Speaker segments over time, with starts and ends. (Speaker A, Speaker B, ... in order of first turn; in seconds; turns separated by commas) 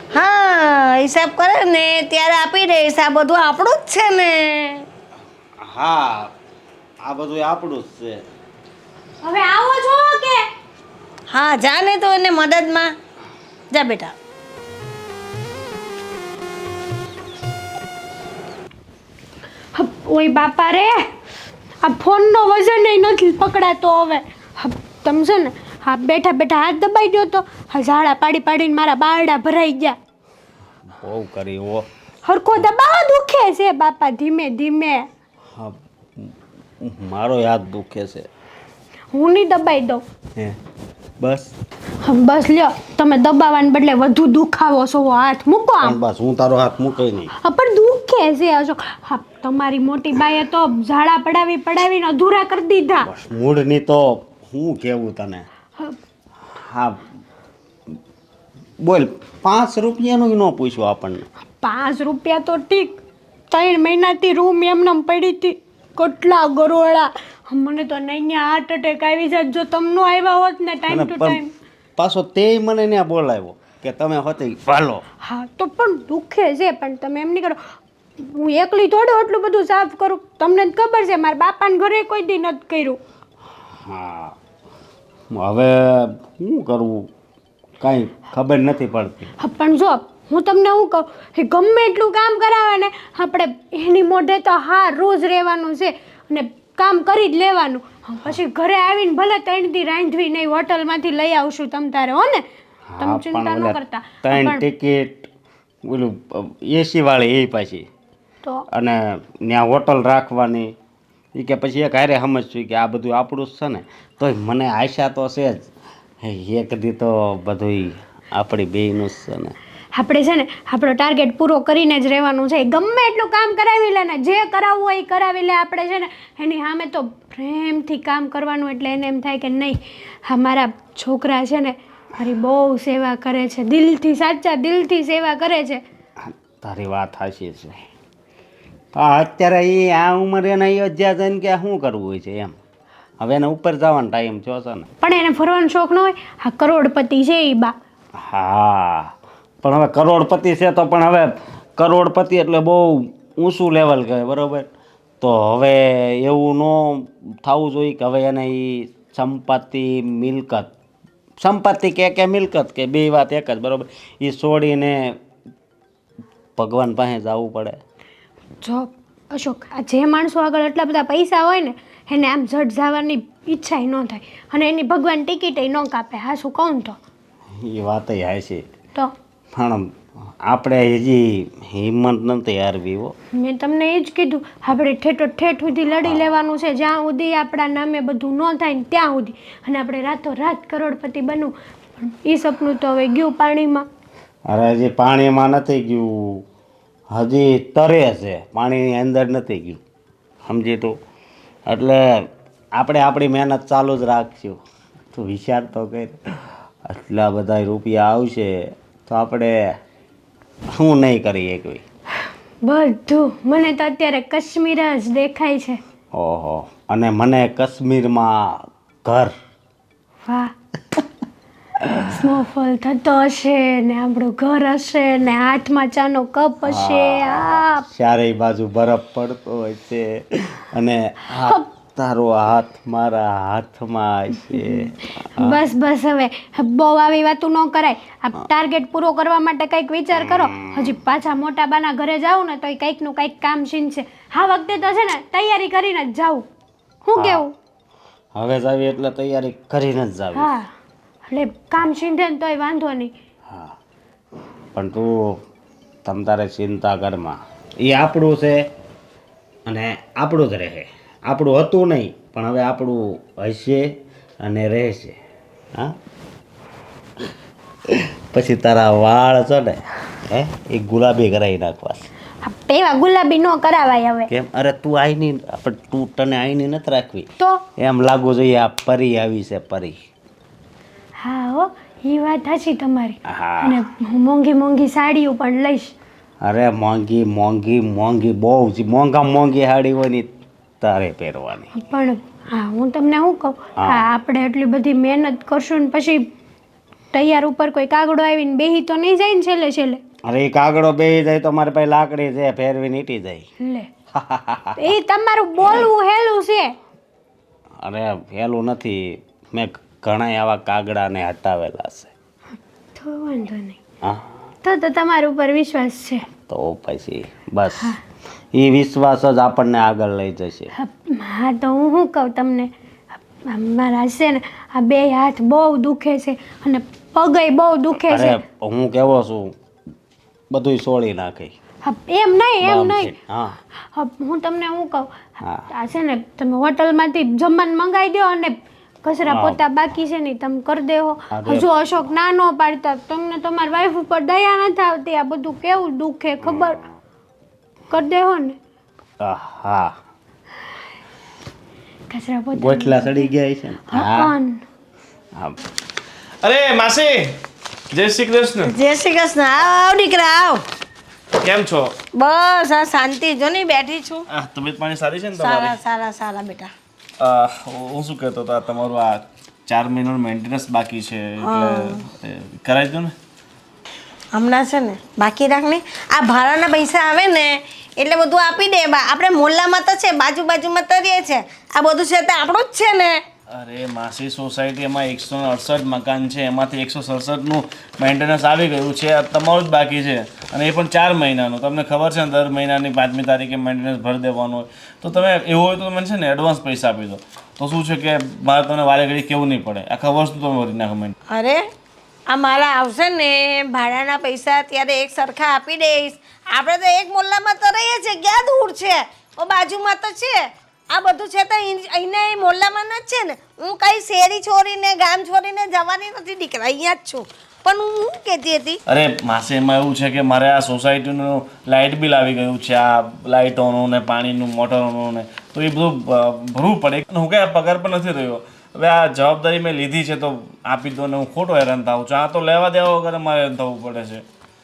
Speaker A: 0.1-4.8, Speaker B: 5.6-6.3, Speaker B: 7.0-8.2, Speaker C: 9.2-10.5, Speaker A: 11.3-12.9, Speaker A: 13.7-14.1, Speaker C: 19.7-21.1, Speaker C: 21.8-29.9, Speaker B: 30.9-31.9, Speaker C: 32.2-35.1, Speaker B: 35.5-38.3, Speaker C: 39.1-40.0, Speaker B: 41.2-41.5, Speaker C: 42.0-46.0, Speaker B: 45.8-47.3, Speaker C: 47.4-53.1, Speaker B: 53.0-55.5, Speaker B: 56.5-57.0, Speaker B: 58.8-61.2, Speaker C: 61.6-63.0, Speaker C: 63.5-71.5, Speaker B: 70.9-71.4, Speaker B: 72.0-75.0, Speaker C: 75.2-77.6, Speaker C: 78.2-83.0, Speaker B: 83.8-84.4, Speaker B: 85.3-87.1, Speaker B: 87.8-89.3, Speaker C: 89.4-102.4, Speaker B: 102.9-105.3, Speaker C: 103.0-104.6, Speaker B: 105.8-107.8, Speaker B: 108.7-110.7, Speaker B: 111.3-115.7, Speaker B: 116.2-119.5, Speaker C: 119.9-135.8, Speaker B: 136.2-137.8, Speaker B: 138.9-142.6, Speaker B: 143.2-144.9, Speaker C: 145.0-147.7, Speaker B: 148.2-154.7, Speaker B: 155.2-160.7, Speaker B: 161.4-165.2, Speaker B: 166.6-167.8, Speaker C: 168.6-176.9, Speaker B: 177.6-178.6, Speaker B: 179.5-179.9, Speaker B: 180.4-183.1, Speaker C: 183.3-193.8, Speaker B: 186.0-186.3, Speaker B: 194.5-196.4, Speaker B: 197.1-199.8, Speaker B: 200.4-200.9, Speaker B: 201.7-204.6, Speaker B: 205.1-209.6, Speaker B: 210.7-211.8, Speaker C: 212.6-215.8, Speaker B: 216.1-219.3, Speaker C: 220.2-220.5, Speaker C: 221.9-227.8, Speaker B: 226.6-235.6, Speaker C: 234.5-246.4, Speaker B: 240.2-240.9, Speaker C: 247.0-247.5, Speaker B: 247.1-247.4, Speaker B: 248.3-250.5, Speaker C: 250.3-250.7, Speaker C: 251.3-253.1, Speaker B: 254.7-255.4, Speaker B: 256.0-258.6, Speaker B: 259.7-265.2, Speaker B: 267.9-272.1, Speaker C: 272.4-274.3, Speaker B: 274.3-279.9, Speaker C: 281.2-285.9, Speaker B: 283.3-283.8, Speaker B: 286.4-291.7, Speaker C: 291.7-296.2, Speaker B: 293.8-294.0, Speaker C: 297.1-300.0, Speaker B: 300.3-303.4, Speaker C: 303.6-303.9, Speaker B: 304.1-304.8, Speaker C: 304.8-306.7, Speaker B: 307.8-312.1, Speaker C: 312.9-313.8, Speaker C: 314.6-316.2, Speaker B: 316.4-317.9, Speaker B: 318.5-320.7, Speaker C: 320.8-322.7, Speaker C: 323.4-328.4, Speaker B: 328.1-329.5, Speaker B: 330.5-331.5, Speaker C: 331.8-333.1, Speaker B: 332.6-333.6, Speaker C: 333.9-346.8, Speaker B: 335.4-335.7, Speaker B: 339.2-339.6, Speaker B: 341.3-341.7, Speaker B: 346.4-346.8, Speaker C: 347.9-348.6, Speaker B: 349.2-349.9, Speaker C: 352.1-353.3, Speaker B: 352.6-354.3, Speaker C: 353.9-354.6, Speaker D: 356.4-357.4, Speaker D: 357.9-358.7, Speaker A: 358.6-360.6, Speaker D: 361.4-361.9, Speaker A: 362.1-364.2, Speaker D: 364.3-365.8, Speaker A: 365.4-366.7, Speaker D: 367.2-373.1, Speaker A: 371.4-372.0, Speaker A: 374.3-383.2, Speaker D: 383.5-401.1, Speaker A: 401.3-401.6, Speaker A: 402.3-410.4, Speaker A: 410.9-418.8, Speaker D: 418.9-434.2